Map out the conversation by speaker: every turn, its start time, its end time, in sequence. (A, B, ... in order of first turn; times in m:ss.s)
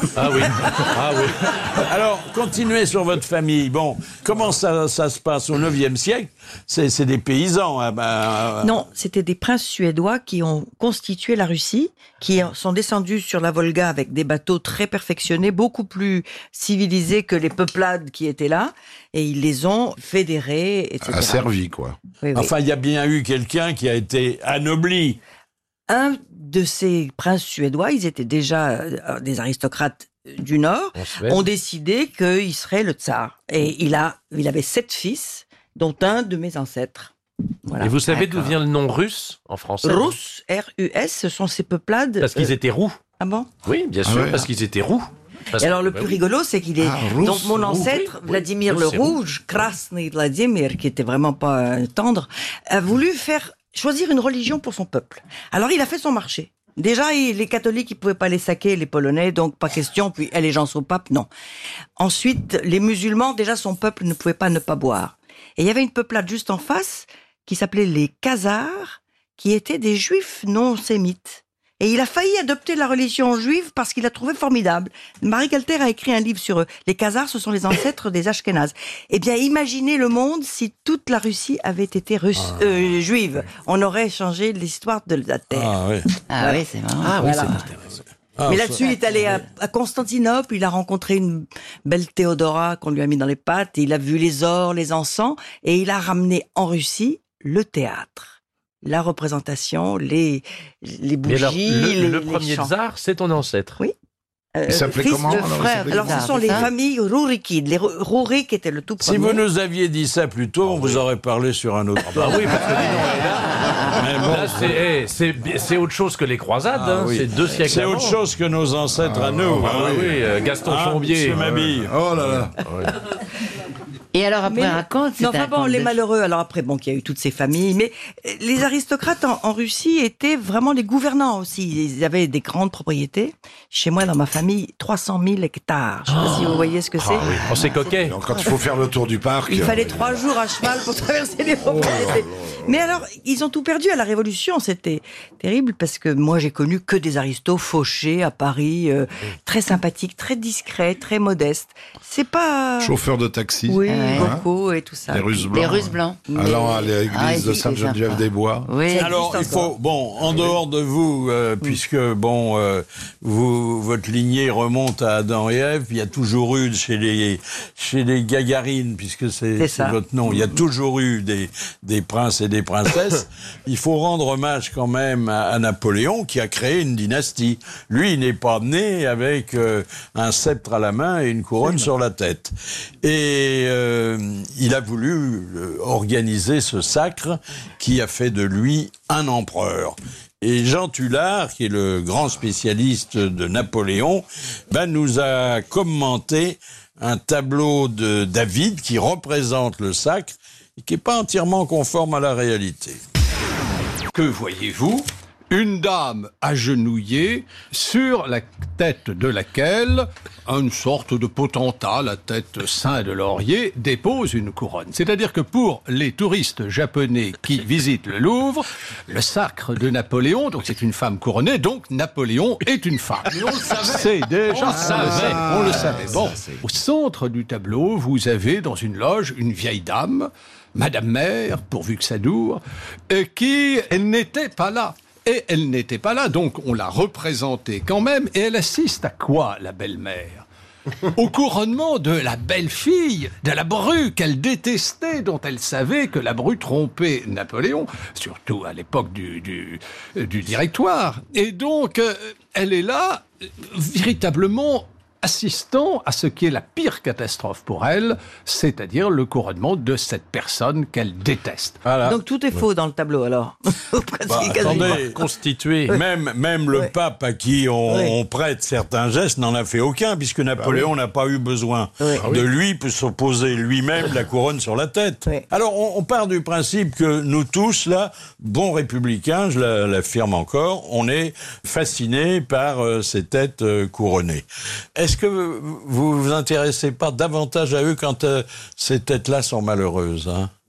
0:00.1-0:01.4 A
0:01.7-0:08.8 B
0:08.6-0:21.5 C
0:21.0-0:22.0 D
0:22.2-0:22.5 C
0:22.3-0:25.2 B
0:25.9-0:37.1 C
0:31.0-0:31.4 A
0:37.6-0:38.6 C
0:37.8-0:40.2 A
0:39.8-0:42.5 C
0:42.2-0:43.0 A
0:43.2-0:43.5 C
0:43.6-0:46.2 A
0:44.0-0:44.5 D
0:45.6-1:01.3 C
0:46.8-0:47.8 D
0:47.6-0:49.2 A
1:02.0-1:25.7 C
1:25.5-1:26.1 B
1:26.3-1:27.5 E
1:27.0-1:27.9 A
1:27.2-1:27.6 C
1:28.4-1:28.8 B
1:28.5-1:42.7 C
1:41.2-1:43.8 A
1:44.5-1:49.4 C
1:44.7-1:46.7 D
1:45.2-1:46.7 E
1:49.0-1:52.8 B
1:50.6-1:51.0 A
1:52.0-1:58.2 A
1:53.9-1:54.8 B
1:56.7-2:00.1 B
1:58.9-2:00.2 D
1:59.5-2:01.4 A
2:00.6-2:01.9 B
2:01.3-2:02.5 D
2:02.2-2:02.9 A
2:04.1-2:06.0 E
2:04.5-2:17.4 C
2:16.1-2:18.2 A
2:17.2-2:20.2 D
2:19.5-2:32.9 C
2:21.6-2:22.7 D
2:32.8-2:34.4 D
2:33.7-2:35.5 C
2:33.8-2:34.4 E
2:35.1-2:38.7 D
2:35.5-2:36.2 E
2:36.3-2:36.9 C
2:37.0-2:39.2 E
2:38.9-2:39.7 C
2:39.0-3:23.0 B
2:40.2-2:40.6 D
2:49.6-2:50.0 C
3:24.1-4:00.4 F
3:44.5-3:45.6 A
3:44.7-3:46.2 D
4:01.1-4:21.8 F
4:21.9-4:22.1 B
4:22.0-4:25.0 C
4:24.3-4:25.2 B
4:24.5-4:26.0 A
4:25.9-4:44.4 B
4:27.9-4:28.1 C
4:32.0-4:32.3 C
4:45.0-4:50.5 B